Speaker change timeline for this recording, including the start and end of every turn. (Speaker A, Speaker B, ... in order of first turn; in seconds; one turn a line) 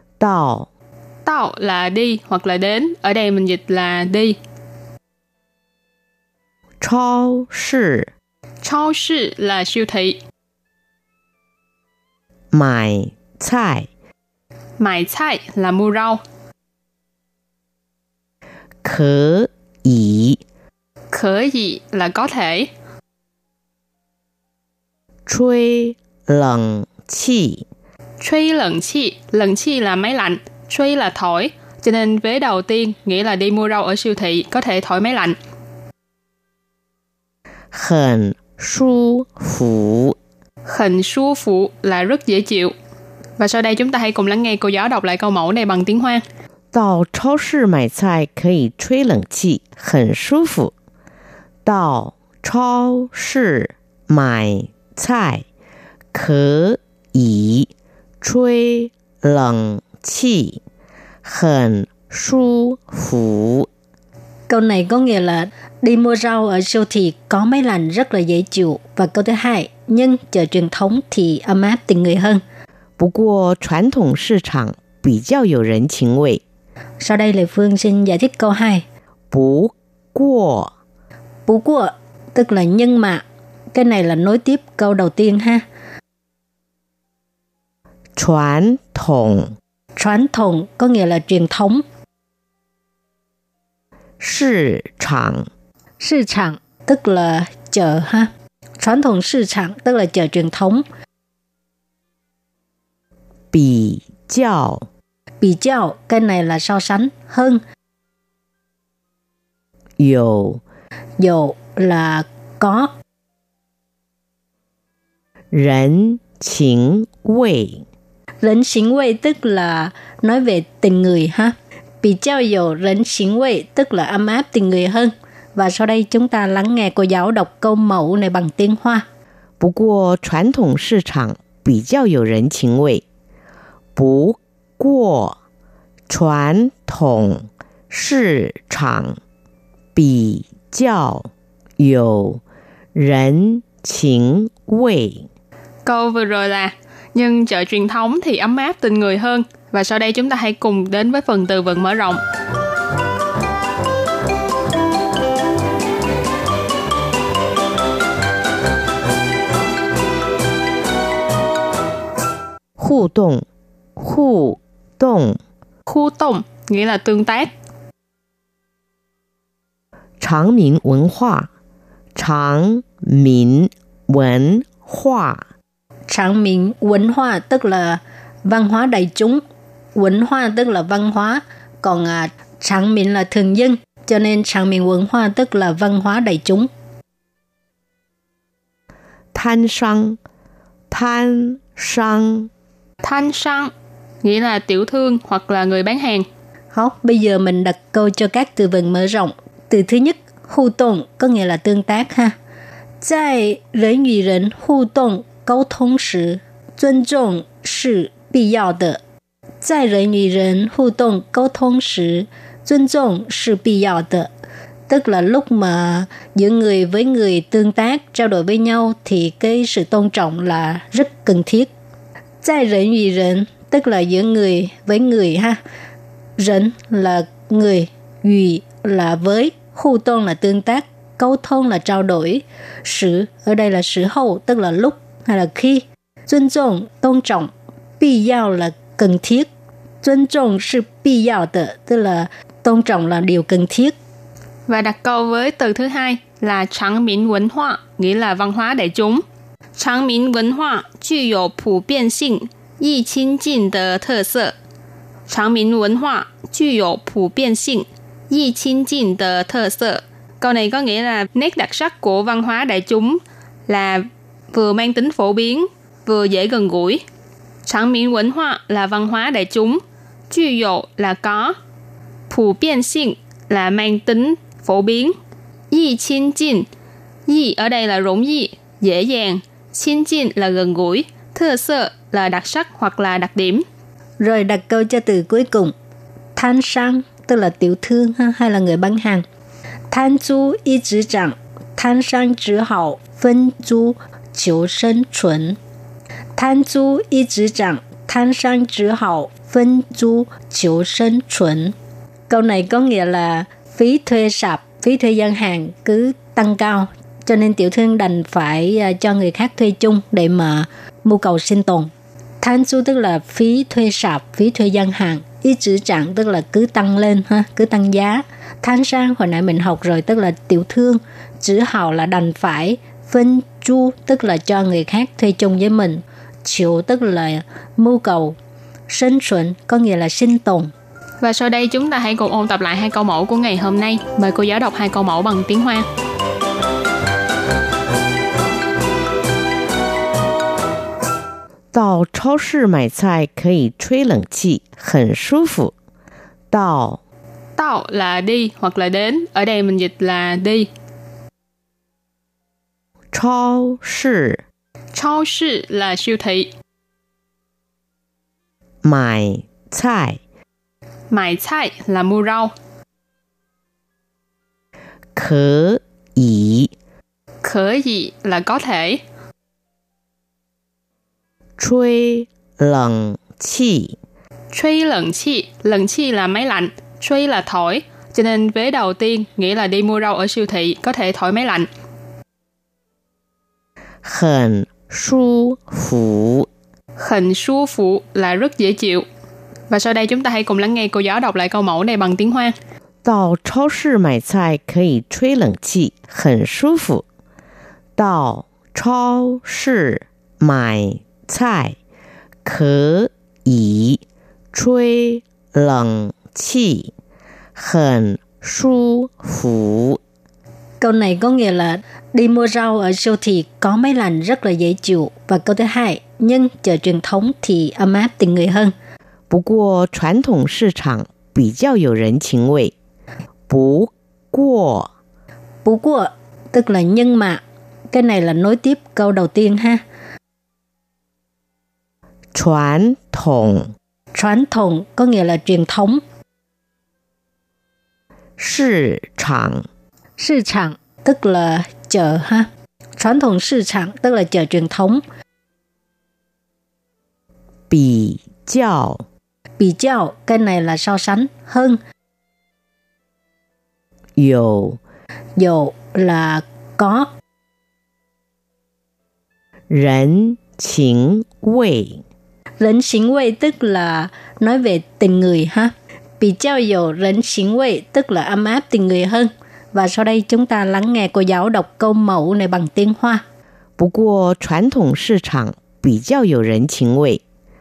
Speaker A: 0.2-0.7
Speaker B: 1.2-4.4
Speaker A: 6.8-8.1
Speaker B: 8.6-10.2
Speaker A: 12.5-13.9
Speaker B: 14.8-16.2
Speaker A: 18.8-20.4
Speaker B: 21.1-22.7
Speaker A: 25.2-27.6
Speaker B: 28.2-35.3
Speaker A: 37.7-40.2
Speaker B: 40.7-42.7
Speaker B: 43.4-46.2
Speaker A: 46.7-50.7
Speaker A: 51.6-55.4
Speaker A: 56.1-57.7
Speaker A: 58.2-60.6
Speaker A: 61.2-63.7
Speaker C: 64.5-72.4
Speaker A: 73.0-76.4
Speaker C: 77.0-78.8
Speaker A: 79.3-80.7
Speaker C: 81.5-85.6
Speaker A: 88.2-89.5
Speaker C: 90.0-91.8
Speaker A: 94.2-95.5
Speaker C: 96.0-100.8
Speaker A: 103.5-104.9
Speaker C: 105.4-107.6
Speaker A: 110.0-110.6
Speaker C: 111.2-112.9
Speaker A: 115.5-117.8
Speaker C: 118.4-129.0
Speaker A: 129.6-133.0
Speaker A: 133.9-135.4
Speaker A: 136.1-139.2
Speaker A: 139.9-142.4
Speaker A: 142.9-145.3
Speaker B: 145.9-152.2
Speaker A: 162.8-163.4
Speaker A: 164.0-165.4
Speaker B: 165.9-167.5
Speaker A: 170.2-171.5
Speaker A: 172.2-175.4
Speaker C: 176.1-179.4
Speaker C: 179.9-186.7
Speaker A: 189.3-190.2
Speaker A: 190.9-192.5
Speaker B: 193.0-193.7
Speaker B: 194.2-196.2
Speaker C: 196.7-202.3
Speaker C: 203.0-209.0
Speaker C: 209.6-214.3
Speaker C: 214.9-221.7
Speaker C: 222.4-225.6
Speaker C: 226.4-239.5
Speaker C: 240.0-243.9
Speaker B: 244.7-249.2
Speaker B: 249.8-254.5
Speaker B: 255.3-267.0
Speaker B: 267.6-271.6
Speaker B: 272.3-275.1
Speaker B: 275.7-276.7
Speaker B: 277.3-283.6
Speaker C: 284.2-285.7
Speaker C: 286.4-289.2
Speaker C: 289.9-295.6
Speaker C: 296.4-301.7
Speaker C: 302.3-311.9
Speaker C: 312.4-328.4
Speaker C: 328.9-330.7
Speaker B: 331.2-335.9
Speaker A: 341.7-345.7
Speaker A: 346.5-347.0
Speaker B: 347.6-350.7
Speaker A: 353.1-354.4
Speaker B: 354.9-356.5
Speaker A: 358.8-360.2
Speaker B: 361.1-362.5
Speaker A: 365.1-366.7
Speaker B: 367.4-369.0
Speaker A: 371.6-374.0
Speaker B: 374.5-381.7
Speaker A: 384.0-386.5
Speaker B: 387.0-389.1
Speaker B: 389.7-392.5
Speaker A: 393.0-397.0
Speaker A: 397.9-401.8
Speaker A: 402.4-404.0
Speaker A: 404.5-406.9
Speaker A: 407.5-410.0
Speaker C: 410.8-418.7
Speaker A: 419.3-422.7
Speaker A: 423.5-424.9
Speaker C: 425.6-429.8
Speaker A: 432.3-433.7
Speaker C: 434.1-436.0
Speaker A: 438.4-439.6
Speaker C: 440.2-445.0
Speaker A: 447.7-449.0
Speaker C: 449.6-451.8
Speaker A: 454.2-454.8
Speaker C: 455.4-457.1
Speaker A: 459.7-462.0
Speaker C: 462.6-473.2
Speaker A: 473.8-477.2